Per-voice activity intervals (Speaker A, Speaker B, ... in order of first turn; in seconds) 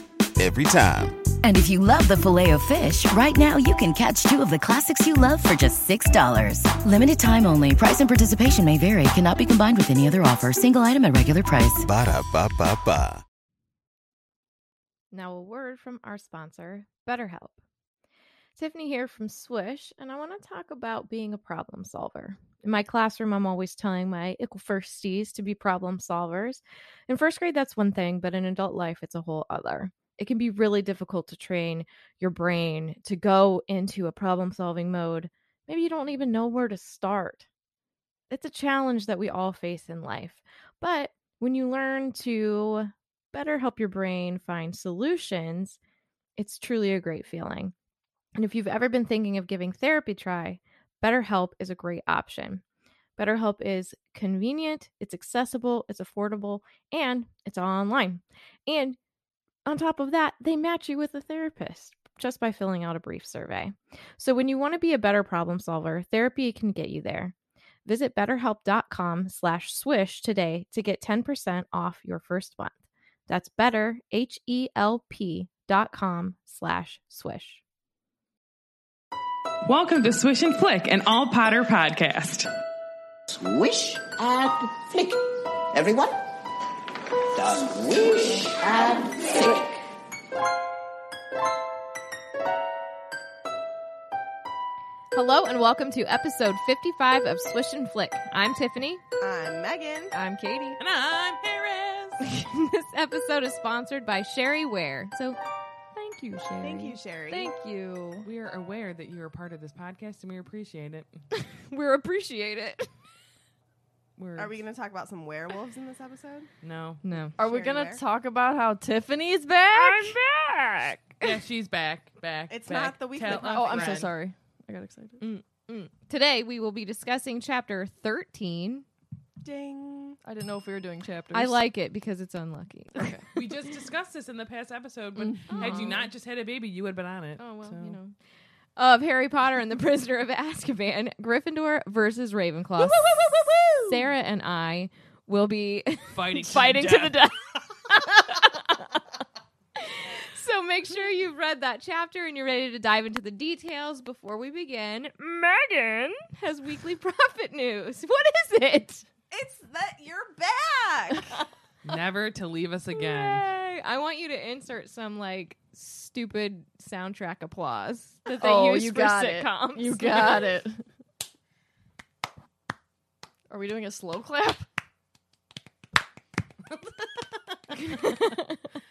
Speaker A: 0.4-1.2, 11.8-13.2
Speaker B: 1.4-11.9
Speaker C: 15.1-17.6, 18.6-37.5, 38.3-45.8, 46.4-47.7, 48.4-52.6, 53.2-59.0, 59.7-67.3, 67.9-72.7, 73.3-77.6, 95.1-99.0, 100.1-100.8, 102.2-105.4, 106.0-107.0, 111.3-112.9, 117.0-117.4, 119.7-121.3, 125.2-128.9, 131.3-133.2, 135.5-136.1, 137.4-138.2, 138.8-143.1, 143.8-149.0, 149.8-159.1, 162.9-170.6, 177.8-178.6
Speaker D: 79.7-82.5, 100.8-102.2, 108.2-111.1, 114.2-114.5, 116.6-117.0, 121.2-124.1, 133.3-138.0, 146.1-147.6, 161.8-163.5
Speaker E: 83.3-86.3, 87.3-89.8
Speaker F: 99.2-100.2, 106.6-107.5, 114.4-116.5, 117.4-118.0, 122.5-124.1, 129.4-130.2, 143.0-143.9, 159.3-161.3
Speaker G: 107.3-108.3, 117.4-120.2, 123.2-125.2, 130.2-131.6, 132.9-133.3, 135.2-135.9, 168.3-170.8, 173.5-174.7